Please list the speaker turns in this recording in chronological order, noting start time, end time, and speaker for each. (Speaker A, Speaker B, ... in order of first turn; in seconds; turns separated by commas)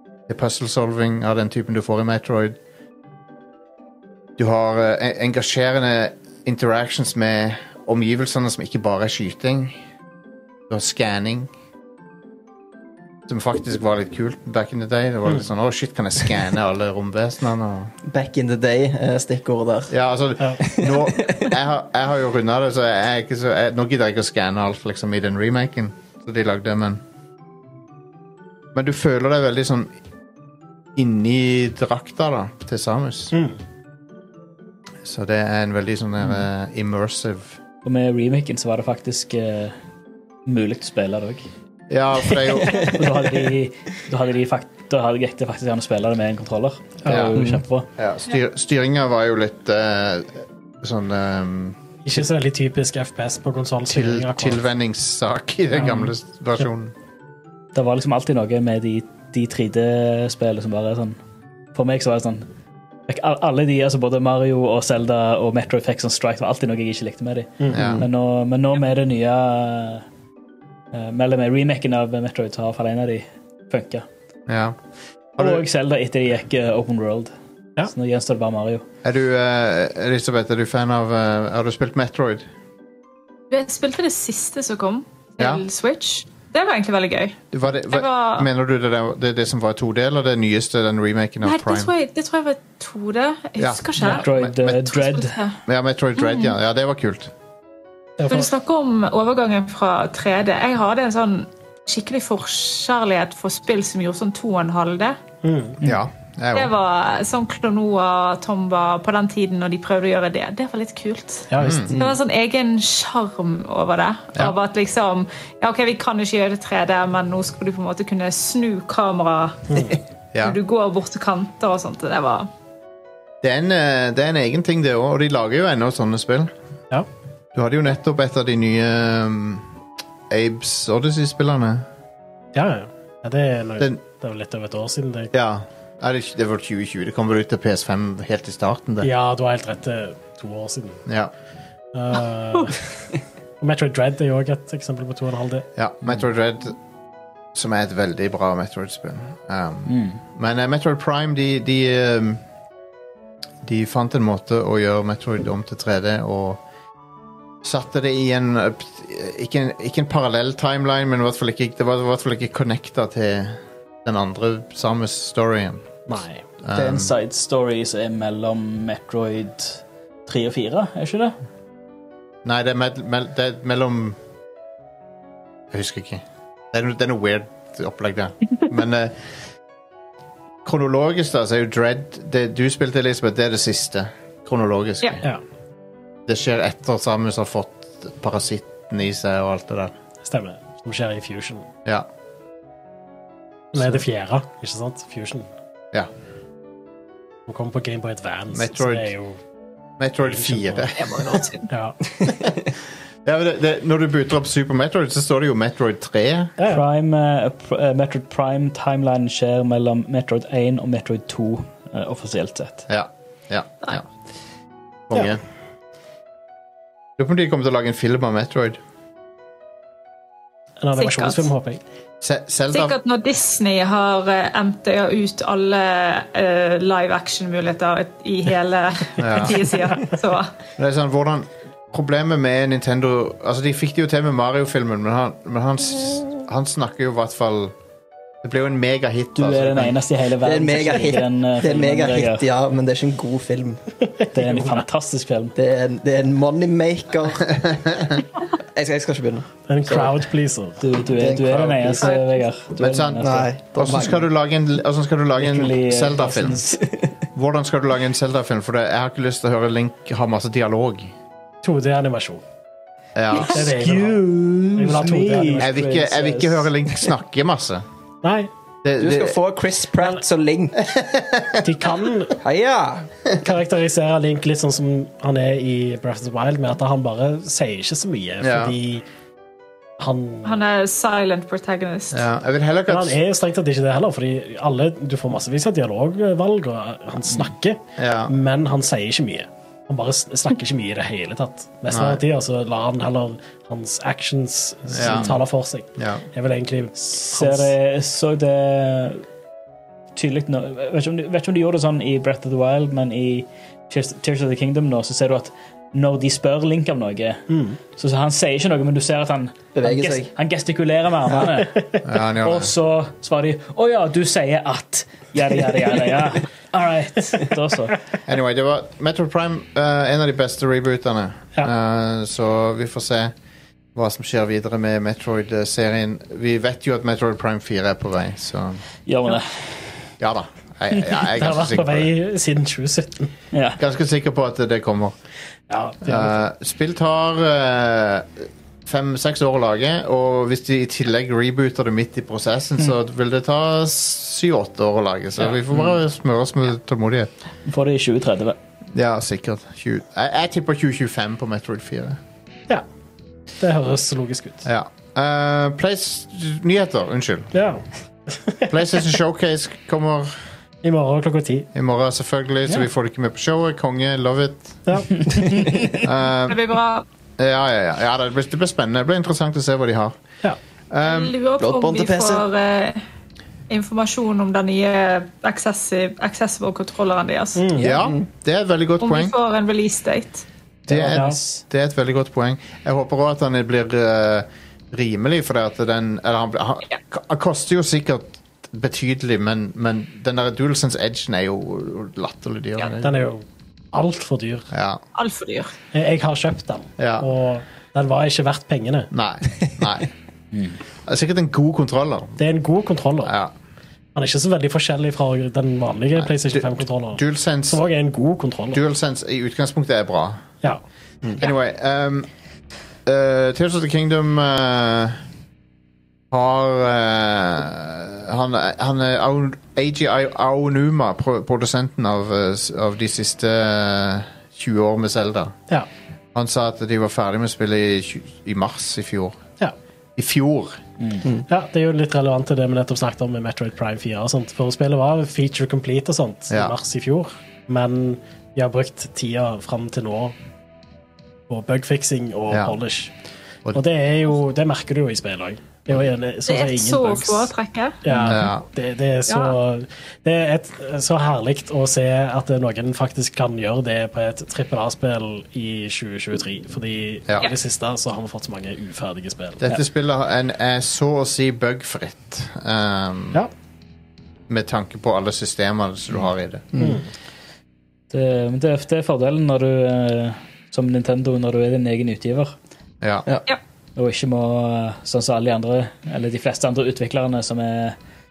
Speaker A: 0.3-2.6, Speaker A: 4.4-9.8, Speaker A: 10.7-11.5, Speaker A: 13.3-17.9, Speaker B: 18.1-19.9, Speaker A: 19.9-27.0, Speaker B: 20.7-21.5, Speaker A: 28.7-29.9, Speaker A: 31.0-33.3, Speaker A: 35.0-37.6, Speaker C: 37.8-39.8, Speaker C: 40.5-41.4, Speaker A: 41.9-43.0, Speaker C: 42.8-47.9, Speaker A: 47.1-47.3, Speaker B: 47.4-47.6, Speaker A: 48.0-51.8, Speaker D: 52.0-54.6, Speaker A: 53.9-56.9, Speaker D: 55.8-56.1, Speaker C: 57.8-61.2, Speaker C: 61.8-62.5, Speaker C: 63.1-70.0, Speaker D: 67.6-68.0, Speaker A: 67.7-68.0, Speaker C: 70.9-74.1, Speaker A: 74.5-74.8, Speaker A: 75.4-75.6, Speaker C: 75.4-77.3, Speaker C: 77.9-78.8, Speaker A: 79.0-82.5, Speaker E: 83.5-87.4, Speaker A: 85.4-85.6, Speaker A: 87.5-91.9, Speaker E: 87.9-88.5, Speaker E: 91.4-94.3, Speaker A: 93.6-95.0, Speaker C: 94.0-95.4, Speaker E: 94.8-95.6, Speaker A: 95.7-97.3, Speaker E: 96.2-96.5, Speaker D: 98.2-98.5, Speaker E: 98.3-105.2, Speaker D: 105.4-105.8, Speaker A: 105.8-106.7, Speaker E: 106.5-122.5, Speaker D: 111.5-111.9, Speaker A: 111.6-111.9, Speaker D: 119.7-120.0, Speaker A: 123.4-126.5, Speaker A: 127.5-129.7, Speaker A: 130.3-131.9, Speaker D: 132.5-135.3, Speaker A: 135.3-139.1, Speaker D: 139.0-141.0, Speaker A: 141.1-141.3, Speaker D: 141.9-142.8, Speaker D: 143.6-145.7, Speaker A: 145.8-146.8, Speaker A: 147.5-152.4, Speaker C: 149.9-150.2, Speaker A: 153.6-156.6, Speaker A: 157.6-166.0, Speaker D: 166.1-166.4, Speaker A: 166.6-167.1, Speaker C: 166.7-171.4, Speaker A: 172.4-174.2, Speaker A: 175.7-179.2, Speaker A: 180.6-185.2, Speaker A: 186.3-189.9, Speaker D: 190.2-191.7, Speaker D: 193.7-195.5, Speaker D: 197.5-199.4, Speaker A: 198.5-199.1, Speaker A: 200.0-201.4, Speaker D: 200.3-200.9, Speaker E: 201.0-201.7, Speaker D: 201.7-202.0, Speaker A: 203.2-206.6, Speaker D: 206.6-206.8, Speaker C: 206.7-212.9, Speaker A: 212.9-214.1, Speaker A: 215.1-215.4, Speaker A: 217.2-218.8, Speaker D: 220.8-221.8, Speaker E: 221.0-221.5, Speaker A: 222.2-222.9, Speaker E: 222.7-230.5, Speaker A: 229.2-229.7, Speaker A: 230.8-237.8, Speaker A: 238.4-239.9, Speaker C: 239.3-242.5, Speaker B: 240.4-243.8, Speaker D: 244.2-244.8, Speaker C: 244.3-245.6, Speaker B: 245.6-247.7, Speaker B: 248.7-250.2, Speaker D: 249.7-250.8, Speaker C: 250.8-253.5, Speaker B: 251.1-252.2, Speaker E: 252.0-252.4, Speaker A: 252.8-256.6, Speaker B: 253.2-254.2, Speaker C: 255.4-256.8, Speaker A: 257.4-261.1, Speaker D: 261.6-262.4, Speaker A: 263.1-264.9, Speaker D: 263.4-265.7, Speaker C: 264.6-266.7, Speaker A: 265.6-267.9, Speaker D: 268.2-268.5, Speaker A: 268.8-269.4, Speaker B: 269.0-270.8, Speaker A: 270.9-271.6, Speaker D: 271.6-272.4, Speaker B: 272.4-273.1, Speaker D: 273.4-279.0, Speaker A: 278.4-278.8, Speaker D: 280.0-280.6, Speaker E: 280.4-282.2, Speaker A: 282.1-283.2, Speaker D: 282.9-297.7, Speaker A: 288.0-288.3, Speaker A: 291.9-292.2, Speaker A: 294.9-295.4, Speaker C: 295.0-295.3, Speaker A: 296.0-296.2, Speaker C: 297.0-299.2, Speaker C: 300.2-307.4, Speaker D: 307.5-307.8, Speaker C: 307.9-318.0, Speaker B: 309.8-310.3, Speaker D: 311.6-312.0, Speaker A: 312.0-312.7, Speaker A: 318.3-323.3, Speaker A: 323.9-328.8, Speaker C: 329.1-330.0, Speaker A: 330.2-332.1, Speaker D: 331.3-333.3, Speaker C: 333.5-333.8, Speaker A: 333.8-335.2, Speaker D: 335.7-336.4, Speaker A: 336.0-347.3, Speaker C: 345.5-345.9, Speaker C: 347.7-348.6, Speaker A: 348.9-352.2, Speaker D: 353.6-354.6, Speaker A: 354.6-357.5, Speaker D: 357.5-358.7, Speaker A: 358.7-360.4, Speaker D: 360.8-361.7, Speaker A: 361.8-364.8, Speaker D: 364.9-365.2, Speaker B: 365.4-366.0, Speaker A: 366.0-366.6, Speaker E: 366.5-367.1, Speaker A: 367.4-370.2, Speaker A: 370.9-371.3, Speaker E: 371.0-373.0, Speaker B: 371.6-372.4, Speaker E: 373.7-377.6, Speaker D: 377.6-377.9, Speaker B: 377.8-378.3, Speaker A: 377.8-379.3, Speaker E: 379.0-380.4, Speaker A: 380.9-393.2, Speaker D: 381.0-381.4, Speaker D: 393.0-394.7, Speaker A: 394.7-395.0, Speaker E: 395.1-395.7, Speaker D: 395.9-399.1, Speaker A: 397.0-397.3, Speaker A: 399.1-400.1, Speaker A: 401.1-402.4, Speaker D: 402.4-403.3, Speaker A: 403.2-403.5, Speaker D: 404.1-408.8, Speaker A: 406.2-407.8, Speaker A: 408.7-410.4, Speaker A: 411.4-412.3, Speaker A: 413.1-415.2, Speaker A: 416.3-425.6, Speaker A: 426.3-429.4, Speaker A: 430.2-430.8, Speaker C: 431.0-431.2, Speaker D: 431.5-440.4, Speaker A: 436.5-436.8, Speaker D: 441.5-443.1, Speaker A: 442.5-442.8, Speaker D: 443.7-447.5, Speaker E: 446.5-448.0, Speaker D: 448.0-459.6, Speaker C: 448.1-448.4, Speaker A: 448.2-448.6, Speaker E: 449.3-449.6, Speaker A: 459.6-463.4, Speaker A: 464.5-466.7, Speaker B: 466.7-467.0, Speaker D: 466.8-467.1, Speaker C: 468.1-472.5, Speaker C: 474.0-478.0